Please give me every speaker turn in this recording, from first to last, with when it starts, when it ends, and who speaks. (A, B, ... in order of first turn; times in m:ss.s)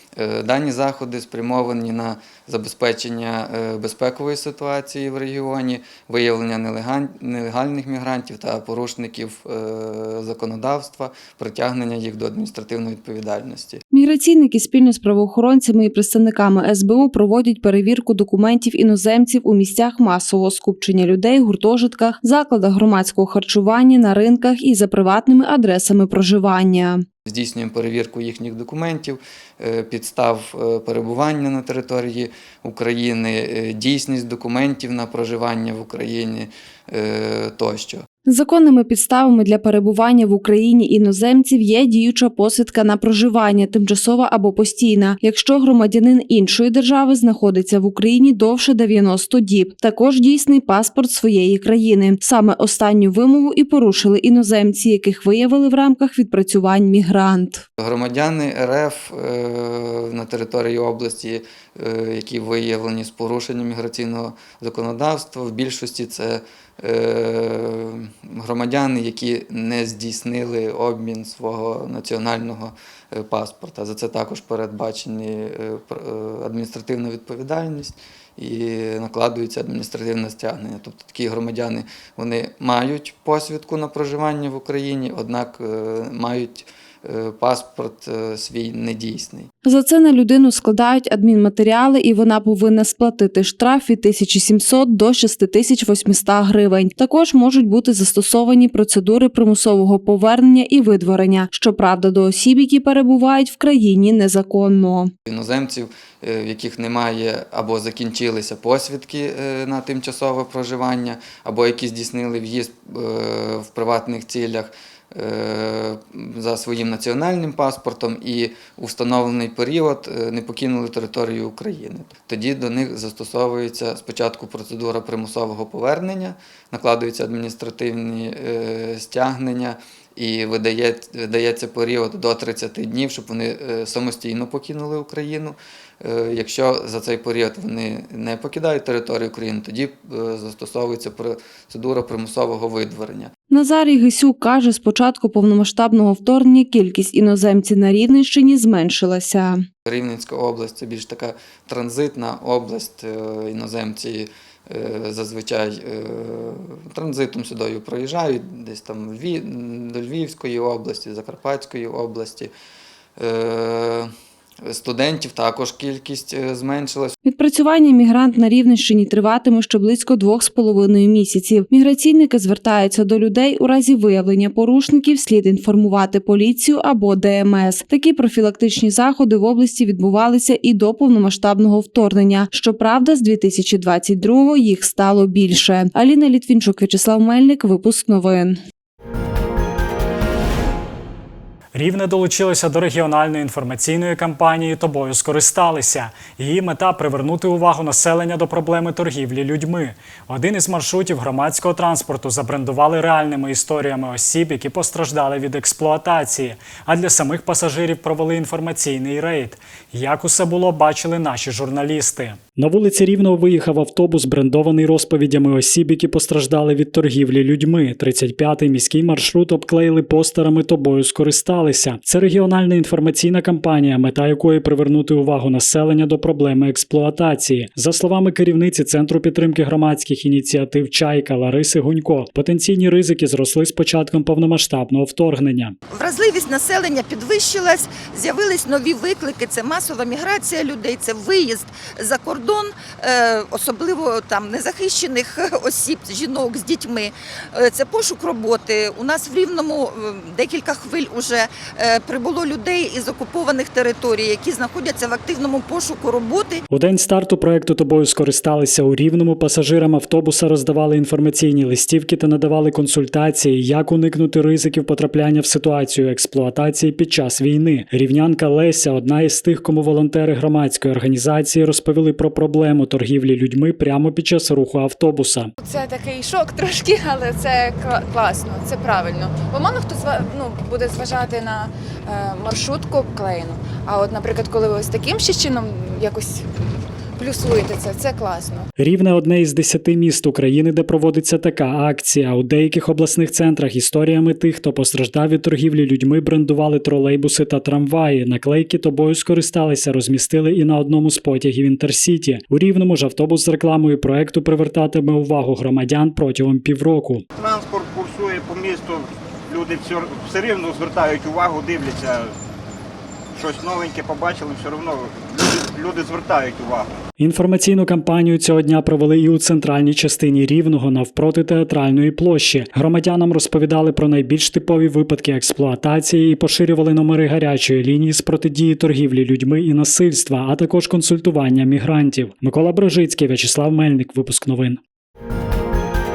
0:00.2-0:13.8 A
0:13.9-0:27.0 B
0:27.3-0:38.1 A
0:38.3-0:57.6 B
0:57.8-1:29.5 A
1:29.6-1:45.1 B
1:45.3-2:23.3 A
2:23.5-2:29.7 B
2:29.9-2:42.5 A
2:43.2-2:44.1 A
2:44.6-2:47.2 A
2:47.2-3:08.6 B
3:11.7-3:55.8 C
3:55.9-4:16.6 D
4:16.7-4:35.5 C
4:35.6-4:46.5 E
4:47.2-4:48.7 E
4:48.8-5:07.2 C
5:07.4-5:12.3 F
5:13.3-5:16.9 F
5:17.2-5:34.8 C